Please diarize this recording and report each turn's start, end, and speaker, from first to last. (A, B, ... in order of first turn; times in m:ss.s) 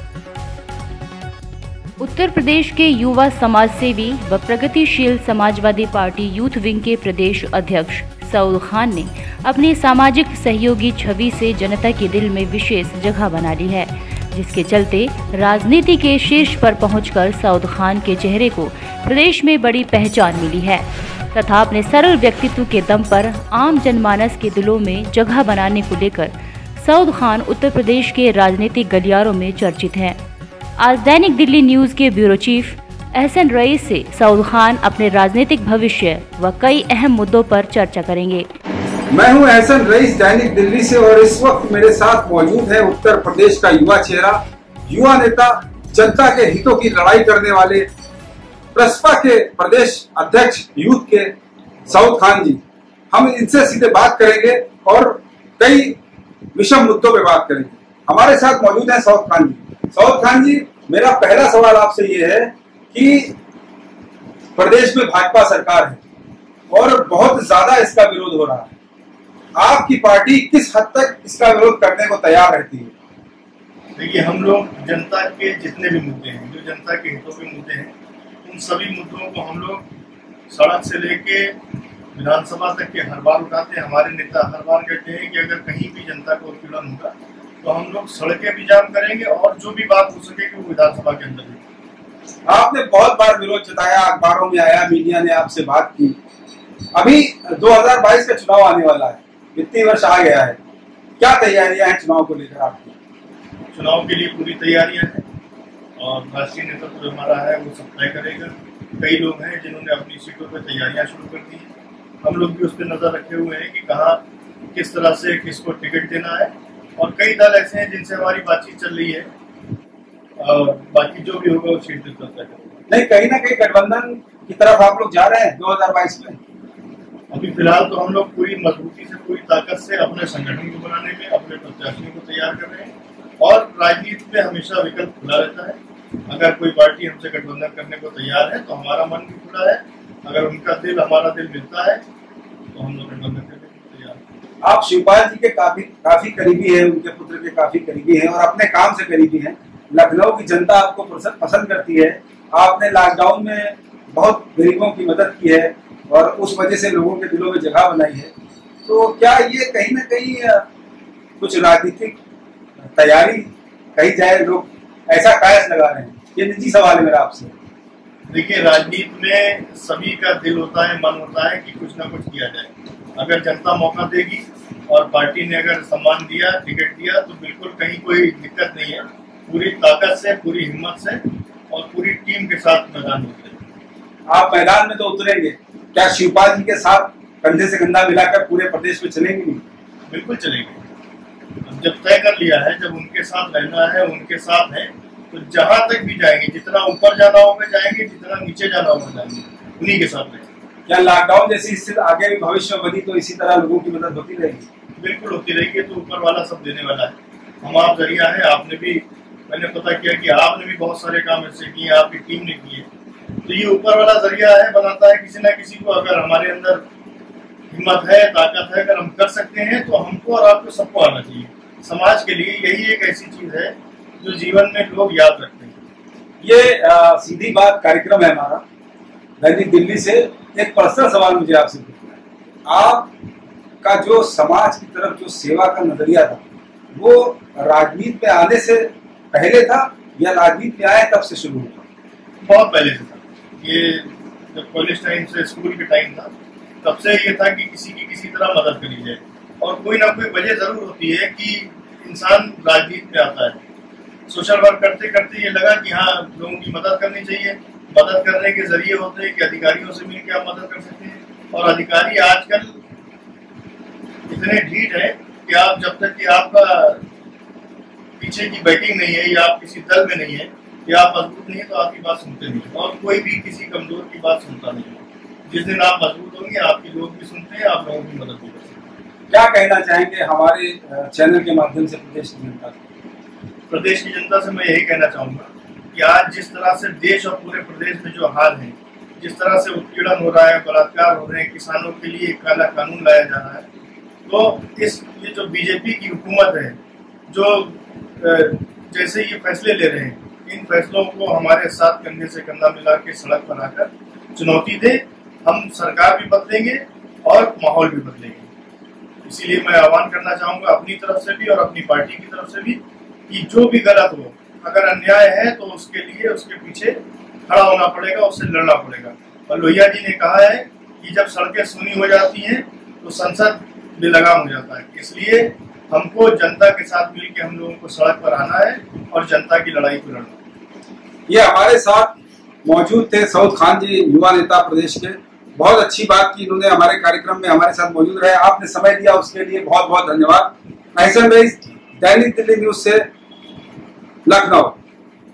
0:02.0-0:30.2 A
0:30.8-0:38.5 A
0:39.1-0:47.9 B
0:48.7-0:51.3 B
0:51.8-0:52.6 B
0:53.1-0:56.0 B
0:56.5-1:03.3 B
1:04.6-1:06.0 B
1:06.7-1:08.7 B
1:09.6-1:12.9 B
1:14.0-1:17.9 C
1:18.4-1:19.8 C
1:20.5-1:21.6 C
1:22.1-1:31.6 C
1:32.5-1:36.2 B
1:36.9-1:40.6 B
1:41.2-1:42.9 B
1:43.7-1:45.2 C
1:46.0-1:51.7 C
1:52.2-1:59.3 C
2:00.4-2:02.8 C
2:02.9-2:06.4 B
2:07.3-2:22.0 C
2:22.7-2:24.2 C
2:24.6-2:38.3 B
2:38.8-2:40.6 B
2:41.4-2:42.2 B
2:42.9-2:47.5 B
2:48.3-3:03.6 C
3:04.3-3:09.6 B
3:10.1-3:10.8 C
3:11.6-3:20.5 C
3:20.9-3:24.6 B
3:25.0-3:32.9 C
3:33.4-3:36.8 C
3:37.7-3:45.8 C
3:46.4-3:48.6 B
3:49.4-3:52.1 B
3:52.7-3:53.1 B
3:53.8-3:56.4 B
3:56.9-4:01.8 B
4:02.4-4:13.6 C
4:14.3-4:22.8 C
4:24.3-4:27.0 C
4:28.2-4:38.8 C
4:39.3-4:42.8 B
4:43.7-4:53.6 C
4:54.2-4:56.8 C
4:57.3-5:08.5 C
5:09.2-5:30.4 C
5:31.3-5:32.1 B
5:32.6-5:43.0 B
5:44.2-5:44.8 B